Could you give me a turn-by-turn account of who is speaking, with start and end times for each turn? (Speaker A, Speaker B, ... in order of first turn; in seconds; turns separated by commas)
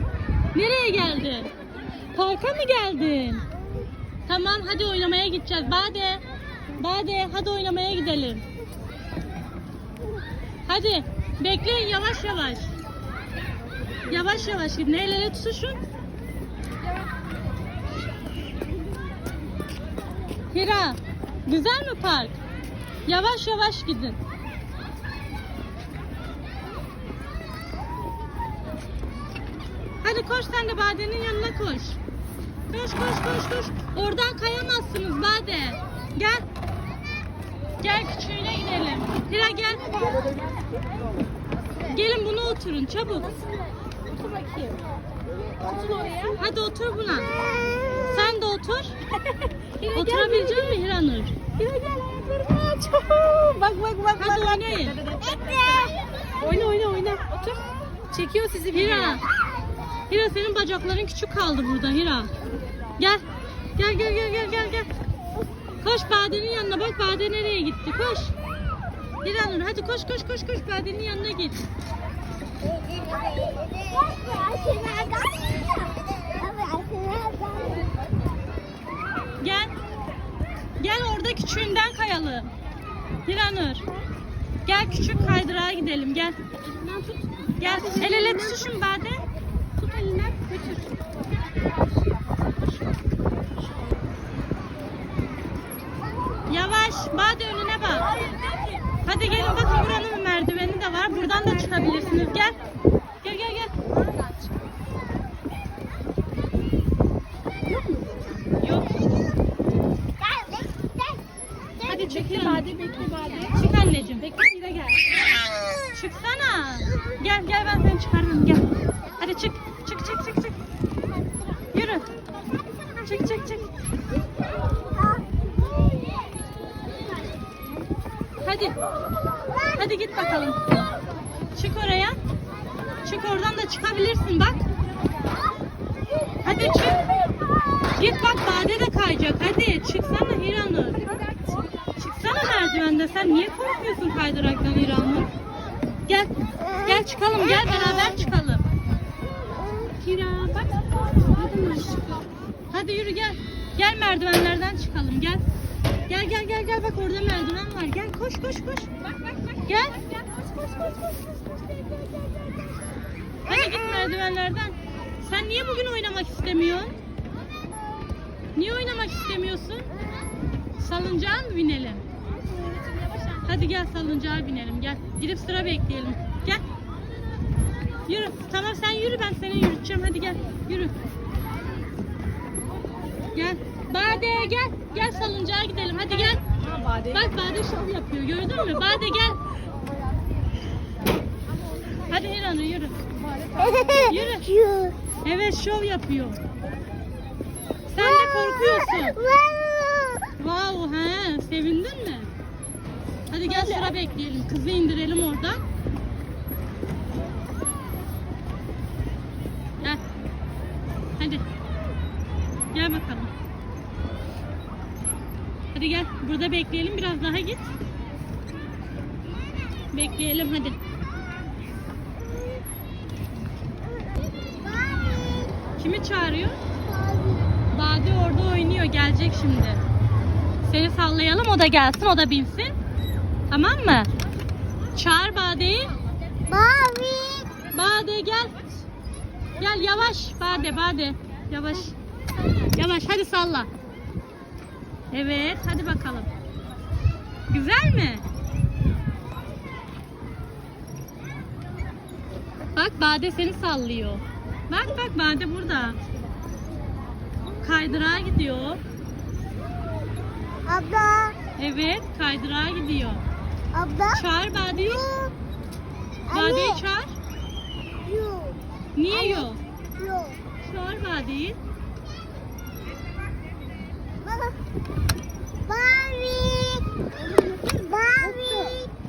Speaker A: 0.5-1.5, Speaker A: 2.1-3.5, Speaker A: 4.3-8.4, Speaker A: 10.7-12.7, Speaker A: 14.1-15.8, Speaker A: 20.5-22.4, Speaker A: 23.1-24.2, Speaker A: 30.0-32.0, Speaker A: 32.7-36.4, Speaker A: 37.8-39.9, Speaker A: 41.9-43.4, Speaker B: 44.0-44.8, Speaker B: 45.6-46.4, Speaker A: 46.4-47.3, Speaker A: 48.0-49.0, Speaker B: 49.2-50.7, Speaker A: 49.9-51.4, Speaker B: 51.6-59.2, Speaker A: 54.2-55.0, Speaker A: 58.7-59.2, Speaker A: 60.1-62.3, Speaker A: 63.0-63.2, Speaker A: 63.8-64.9, Speaker A: 65.8-68.3, Speaker A: 69.2-71.7, Speaker C: 72.9-77.9, Speaker A: 79.4-79.7, Speaker A: 80.8-82.5, Speaker A: 83.2-83.8, Speaker A: 84.7-86.4, Speaker B: 86.5-88.6, Speaker A: 87.6-89.2, Speaker B: 89.8-91.0, Speaker B: 92.1-93.2, Speaker A: 96.5-98.1, Speaker B: 98.2-98.8, Speaker A: 99.0-102.6, Speaker B: 101.3-102.5, Speaker A: 103.2-103.7, Speaker B: 107.7-109.0, Speaker A: 111.8-112.7, Speaker B: 111.8-113.6, Speaker A: 113.5-114.3, Speaker B: 114.2-115.2, Speaker A: 115.9-120.6, Speaker A: 121.7-122.1, Speaker A: 123.0-123.7, Speaker A: 128.4-128.8, Speaker A: 129.7-130.6, Speaker A: 131.5-132.2, Speaker A: 133.0-134.6, Speaker A: 136.4-137.0, Speaker A: 137.9-141.1, Speaker B: 141.1-141.6, Speaker A: 142.0-145.3, Speaker A: 146.1-148.6, Speaker B: 150.0-152.2, Speaker A: 152.7-155.4, Speaker A: 156.1-158.9, Speaker B: 159.1-162.6, Speaker A: 159.7-160.0, Speaker A: 163.4-167.0, Speaker A: 168.5-169.9, Speaker A: 170.8-172.0, Speaker B: 172.4-173.4, Speaker A: 173.4-176.6, Speaker A: 178.1-180.9, Speaker A: 183.3-186.4, Speaker B: 186.6-187.3, Speaker A: 187.1-189.4, Speaker A: 192.0-193.0, Speaker B: 193.2-194.1, Speaker C: 193.6-194.9, Speaker A: 194.0-194.6, Speaker A: 195.2-196.4, Speaker A: 197.9-199.2, Speaker C: 198.4-200.2, Speaker A: 200.4-202.3, Speaker A: 203.3-205.6, Speaker A: 211.2-211.4, Speaker A: 212.7-213.3, Speaker A: 215.7-217.7, Speaker A: 219.9-220.8, Speaker C: 224.4-225.6, Speaker A: 225.8-226.6, Speaker C: 226.8-227.5, Speaker A: 227.7-229.8, Speaker A: 230.6-232.7, Speaker A: 233.5-234.1, Speaker A: 234.9-235.9, Speaker C: 236.4-237.5, Speaker A: 237.7-238.6, Speaker A: 239.6-241.9, Speaker A: 242.6-243.7, Speaker A: 245.1-246.3, Speaker A: 247.5-248.2, Speaker A: 252.7-256.0, Speaker A: 257.6-258.8, Speaker C: 260.6-261.4, Speaker A: 261.6-263.2, Speaker C: 263.7-265.3, Speaker A: 264.1-265.0, Speaker C: 266.3-266.8, Speaker A: 266.3-267.2, Speaker C: 268.0-268.6, Speaker A: 268.9-269.6, Speaker C: 269.1-270.4, Speaker A: 270.6-271.6, Speaker C: 274.2-274.6, Speaker C: 275.6-276.9, Speaker C: 277.7-278.9